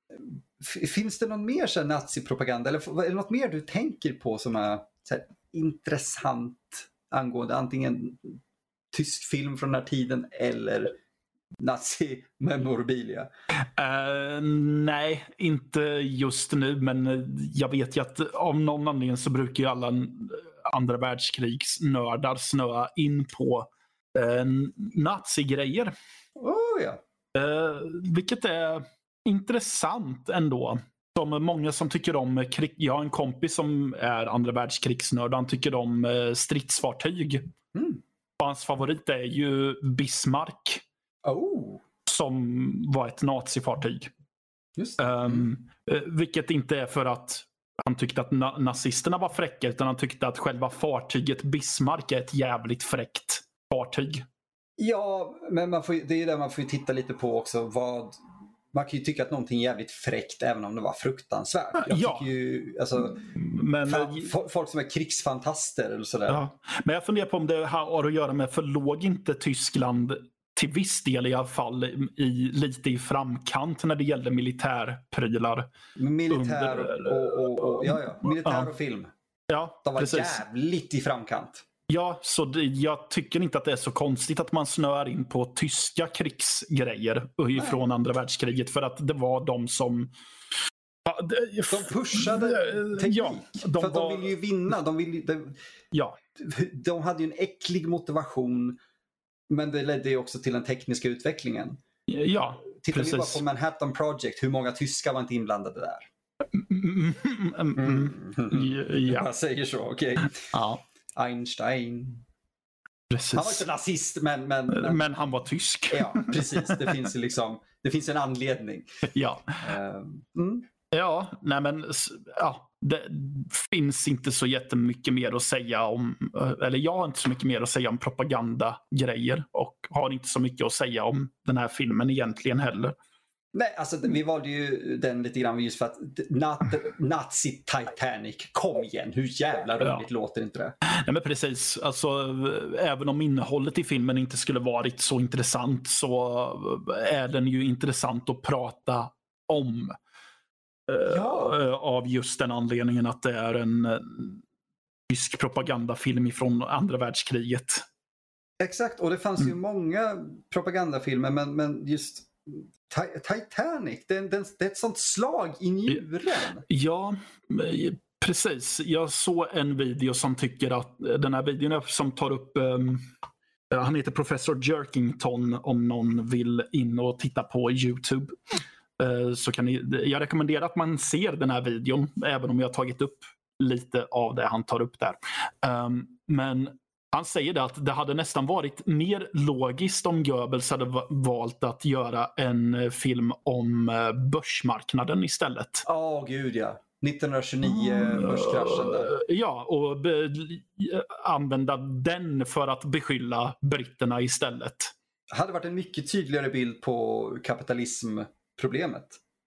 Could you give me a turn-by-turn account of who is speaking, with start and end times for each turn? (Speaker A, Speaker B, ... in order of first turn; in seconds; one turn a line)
Speaker A: 0.1-8.4
Speaker A: 8.9-11.0
Speaker A: 11.6-13.3
Speaker B: 13.8-25.9
Speaker A: 26.4-27.0
Speaker B: 27.3-37.5
Speaker A: 37.7-38.0
Speaker B: 38.4-40.8
Speaker A: 41.2-41.8
Speaker B: 42.0-44.1
Speaker A: 44.8-45.5
Speaker B: 45.0-54.2
Speaker A: 54.8-58.2
Speaker A: 58.7-63.2
Speaker B: 61.8-62.3
Speaker B: 63.3-64.3
Speaker A: 63.9-66.4
Speaker B: 66.3-75.7
Speaker A: 76.0-79.1
Speaker B: 76.3-78.7
Speaker B: 79.5-80.4
Speaker A: 79.8-81.6
Speaker B: 81.9-90.1
Speaker A: 87.5-87.8
Speaker B: 91.0-94.3
Speaker A: 91.7-95.6
Speaker B: 95.9-96.2
Speaker A: 96.4-98.8
Speaker A: 99.5-101.8
Speaker B: 102.1-103.4
Speaker A: 102.8-106.1
Speaker B: 106.5-109.3
Speaker A: 107.8-110.5
Speaker B: 110.5-110.8
Speaker A: 111.1-112.2
Speaker B: 113.1-113.6
Speaker A: 113.3-115.1
Speaker B: 114.7-117.0
Speaker A: 115.9-118.9
Speaker B: 119.1-119.6
Speaker A: 119.6-120.7
Speaker B: 120.9-133.0
Speaker A: 133.5-140.8
Speaker B: 140.8-150.0
Speaker B: 150.9-154.4
Speaker A: 151.0-151.6
Speaker B: 155.1-157.8
Speaker A: 158.6-166.6
Speaker B: 166.7-173.1
Speaker B: 173.7-195.8
Speaker A: 195.8-199.1
Speaker B: 197.7-204.9
Speaker A: 205.3-209.2